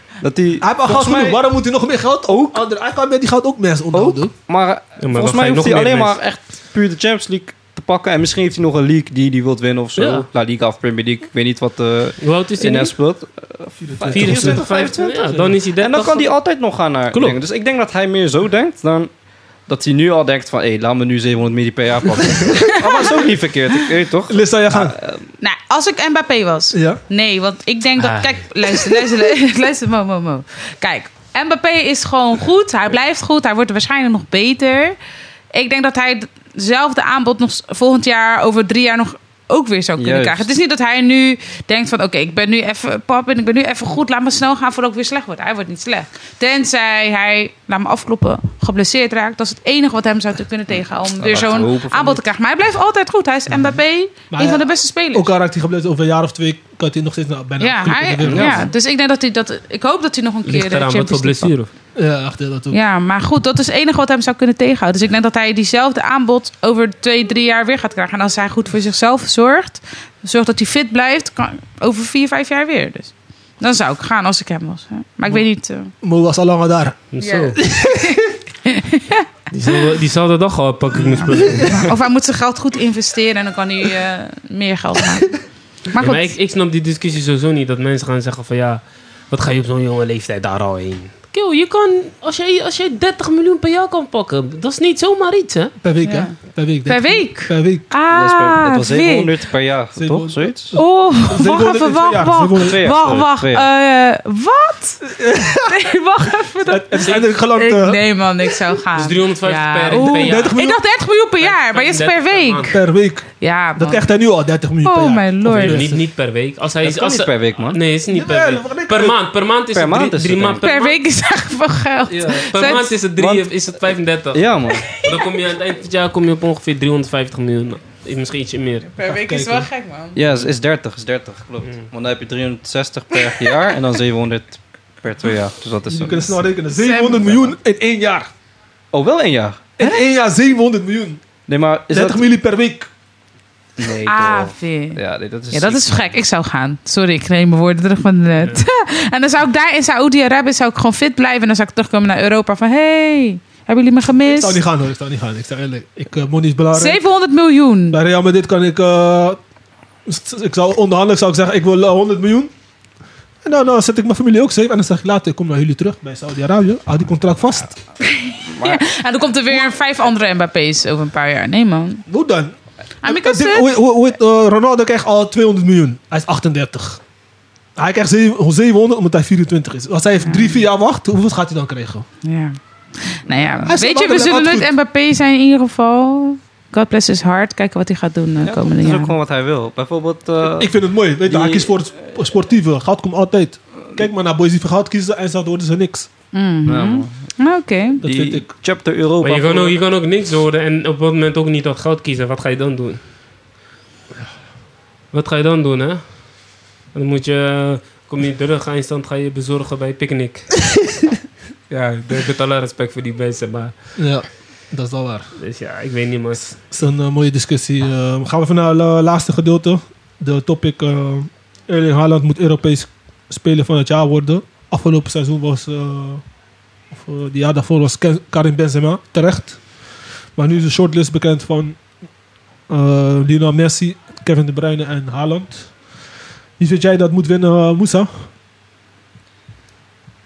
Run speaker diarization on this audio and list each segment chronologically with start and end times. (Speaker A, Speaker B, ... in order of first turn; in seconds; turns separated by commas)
Speaker A: 0.2-1.4, Speaker B: 0.6-4.3, Speaker A: 2.3-2.6, Speaker A: 3.9-19.1, Speaker C: 5.0-6.2, Speaker C: 10.0-10.3, Speaker C: 12.2-12.9, Speaker B: 13.8-15.6, Speaker C: 14.1-16.4, Speaker C: 17.1-17.4, Speaker A: 19.7-25.2, Speaker B: 22.4-22.7, Speaker D: 22.9-23.1, Speaker B: 24.3-25.0, Speaker D: 25.4-35.0, Speaker B: 26.7-27.0, Speaker C: 28.0-28.4, Speaker D: 35.5-55.3, Speaker A: 40.0-40.5, Speaker A: 51.2-52.2, Speaker B: 54.3-58.7, Speaker D: 57.6-61.5, Speaker A: 58.2-58.7, Speaker C: 60.5-61.7, Speaker B: 62.0-62.8, Speaker D: 62.7-75.9, Speaker B: 76.0-77.1, Speaker C: 77.1-77.6, Speaker D: 77.2-79.3, Speaker B: 77.6-78.3, Speaker C: 79.5-81.9, Speaker B: 80.9-81.9, Speaker D: 81.2-86.3, Speaker C: 86.0-95.7, Speaker B: 95.8-97.9, Speaker D: 96.0-99.3, Speaker A: 98.1-100.8, Speaker B: 100.0-102.8, Speaker D: 100.8-112.8, Speaker A: 102.6-103.7, Speaker B: 105.0-105.8, Speaker B: 106.7-108.0, Speaker C: 109.0-110.6, Speaker B: 110.0-110.8, Speaker C: 111.4-112.8, Speaker B: 112.7-116.0, Speaker D: 113.4-114.1, Speaker D: 114.8-115.8, Speaker C: 115.5-121.0, Speaker A: 116.8-117.8, Speaker B: 118.1-119.2, Speaker A: 119.7-120.6, Speaker D: 120.6-123.0, Speaker A: 122.1-122.5, Speaker C: 122.3-128.9, Speaker A: 123.2-124.9, Speaker D: 128.9-130.2, Speaker B: 129.1-129.7, Speaker A: 130.2-136.4, Speaker D: 133.1-133.6, Speaker B: 135.9-138.3, Speaker D: 136.7-137.4, Speaker A: 138.9-139.7, Speaker B: 139.8-141.2, Speaker A: 141.5-142.2, Speaker B: 141.9-142.9, Speaker A: 143.8-146.2, Speaker D: 144.1-154.6, Speaker C: 148.4-148.7, Speaker B: 154.1-157.0, Speaker D: 156.7-158.0, Speaker B: 157.9-159.4, Speaker B: 160.1-162.5, Speaker B: 163.4-167.8, Speaker D: 168.0-172.0, Speaker A: 168.5-168.8, Speaker B: 172.1-177.0, Speaker D: 173.0-173.7, Speaker B: 177.8-182.1, Speaker D: 180.2-180.6, Speaker D: 182.2-189.2, Speaker A: 183.3-183.7, Speaker B: 183.7-184.7, Speaker A: 188.4-191.7, Speaker B: 190.4-196.1, Speaker D: 196.3-198.0, Speaker A: 196.7-197.1, Speaker B: 198.0-198.5, Speaker A: 198.0-199.8, Speaker C: 199.2-203.0, Speaker C: 205.1-210.7, Speaker C: 211.7-214.0, Speaker B: 214.0-215.4, Speaker C: 215.4-216.5, Speaker B: 216.4-226.2, Speaker B: 226.9-229.7, Speaker B: 230.3-231.8, Speaker B: 232.7-235.8, Speaker B: 236.6-238.3